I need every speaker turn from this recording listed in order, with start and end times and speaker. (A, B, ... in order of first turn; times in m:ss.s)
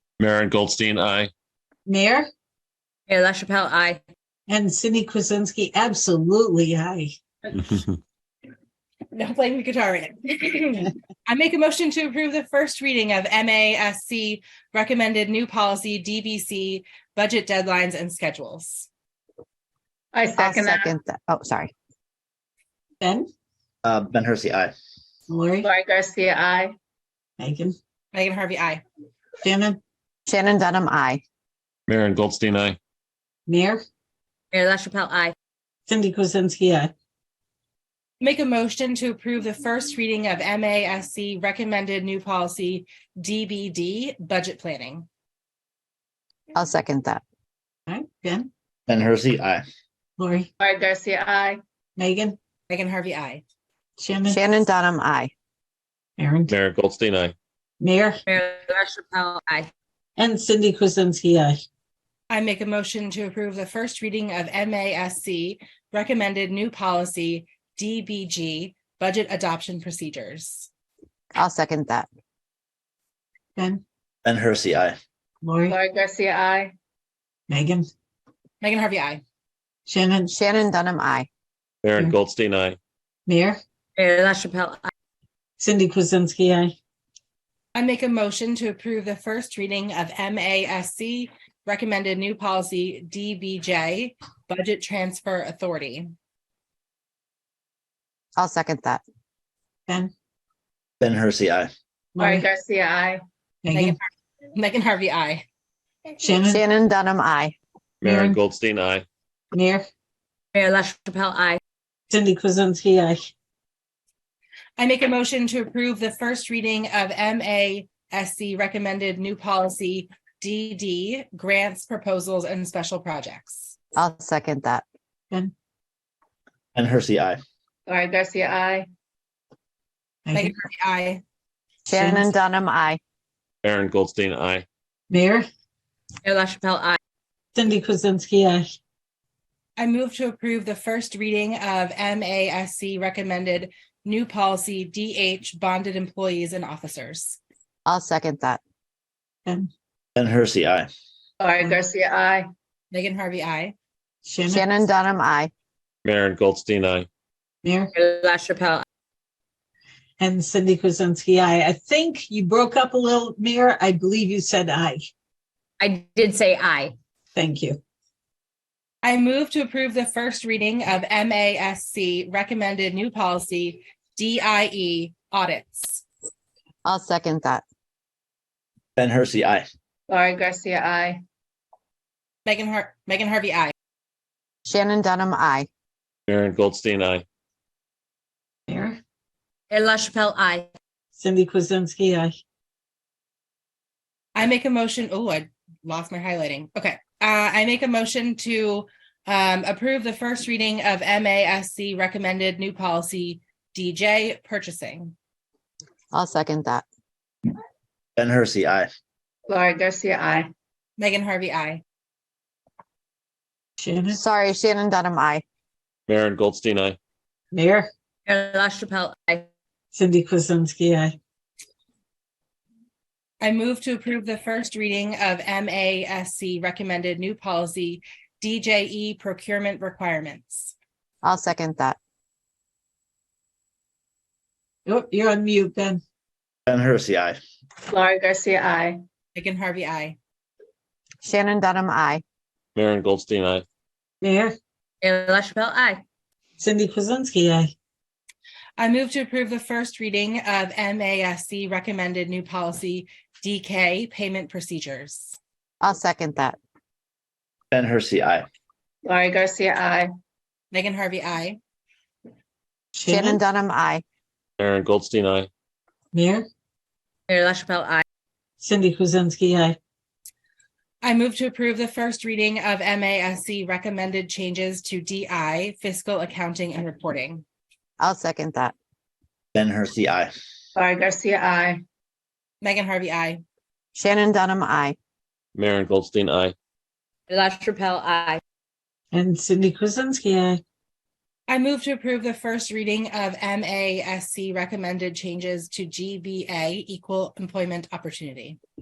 0:00.2-0:01.3 A
0:01.8-0:02.3 B
0:03.1-0:04.0 C
0:04.5-0:07.1 B
0:07.6-0:07.9 A
0:09.1-0:18.9 D
0:20.1-0:20.9 E
0:20.4-0:21.7 F
0:23.0-0:23.3 B
0:23.8-0:24.7 G
0:25.3-0:25.7 B
0:25.6-0:26.7 E
0:27.4-0:27.7 B
0:28.1-0:28.8 D
0:29.4-0:29.8 B
0:30.3-0:31.2 F
0:31.9-0:32.8 A
0:33.5-0:33.8 B
0:34.5-0:35.3 C
0:35.9-0:36.9 B
0:38.2-0:45.0 D
0:46.5-0:47.2 F
0:47.9-0:48.5 B
0:48.9-0:49.6 G
0:50.2-0:50.5 B
0:50.6-0:51.6 E
0:52.0-0:52.4 B
0:52.7-0:53.4 D
0:54.0-0:54.5 B
0:54.3-0:55.3 F
0:56.2-0:56.5 B
0:56.5-0:57.3 A
0:57.8-0:58.2 B
0:58.3-0:59.7 C
1:00.2-1:01.6 B
1:02.3-1:10.7 D
1:11.4-1:12.1 F
1:13.6-1:13.8 B
1:14.2-1:15.0 G
1:15.4-1:15.8 B
1:15.7-1:16.7 E
1:17.5-1:17.9 B
1:18.6-1:19.2 D
1:19.9-1:20.3 B
1:20.3-1:21.3 F
1:21.8-1:22.8 A
1:23.3-1:23.6 B
1:24.0-1:24.9 C
1:25.6-1:26.7 B
1:27.7-1:36.1 D
1:38.4-1:39.0 F
1:41.0-1:41.7 G
1:42.2-1:42.4 B
1:42.2-1:43.2 E
1:43.6-1:44.0 B
1:43.7-1:44.0 D
1:44.5-1:45.4 D
1:46.2-1:46.6 B
1:46.5-1:47.5 F
1:48.0-1:49.0 A
1:48.0-1:48.4 B
1:49.5-1:49.8 B
1:50.5-1:51.6 C
1:52.1-1:53.2 B
1:54.8-2:03.7 D
2:04.0-2:04.8 F
2:06.7-2:07.4 G
2:07.9-2:08.9 E
2:10.3-2:10.5 B
2:10.3-2:11.2 D
2:11.9-2:13.0 F
2:11.9-2:12.3 B
2:13.6-2:14.6 A
2:15.1-2:15.4 B
2:16.2-2:17.0 C
2:17.5-2:18.7 B
2:19.8-2:27.4 D
2:27.8-2:28.6 F
2:30.2-2:30.9 G
2:31.4-2:32.4 E
2:32.9-2:33.7 D
2:34.2-2:34.7 B
2:34.5-2:35.5 F
2:36.0-2:37.1 A
2:37.6-2:37.9 B
2:37.9-2:38.8 C
2:40.2-2:45.0 B
2:45.8-2:46.9 C
2:47.3-2:47.8 B
2:49.0-2:56.0 D
2:56.8-2:57.6 F
2:59.0-2:59.7 G
3:00.1-3:01.2 E
3:02.4-3:03.7 D
3:04.6-3:05.7 F
3:06.3-3:07.2 A
3:08.7-3:09.0 B
3:09.7-3:10.7 C
3:11.2-3:12.3 B
3:14.4-3:25.1 D
3:26.1-3:26.8 F
3:28.2-3:28.9 G
3:29.5-3:30.5 E
3:31.0-3:31.8 D
3:33.8-3:34.2 B
3:34.1-3:35.4 F
3:36.1-3:37.0 A
3:37.5-3:37.9 B
3:38.2-3:39.5 C
3:39.9-3:41.1 B
3:43.4-3:50.7 D
3:51.2-3:52.0 F
3:54.8-3:56.0 B
3:56.7-3:57.4 G
3:57.9-3:59.0 E
3:59.3-4:00.2 D
4:01.2-4:02.2 F
4:02.7-4:03.6 A
4:04.2-4:04.5 B
4:05.0-4:06.0 C
4:06.6-4:07.7 B
4:08.8-4:15.4 D
4:15.8-4:16.6 F
4:17.7-4:18.5 G
4:19.0-4:20.1 E
4:20.7-4:21.6 D
4:22.9-4:23.4 B
4:23.0-4:24.0 F
4:24.6-4:25.5 A
4:26.1-4:26.4 B
4:27.3-4:28.0 C
4:28.6-4:29.8 B
4:31.0-4:37.4 D
4:38.0-4:38.7 F
4:39.5-4:40.3 G
4:40.8-4:41.8 E
4:42.6-4:43.4 D
4:43.9-4:45.0 F
4:45.5-4:46.5 A
4:47.3-4:48.4 C
4:49.1-4:50.6 B
4:51.5-4:58.6 D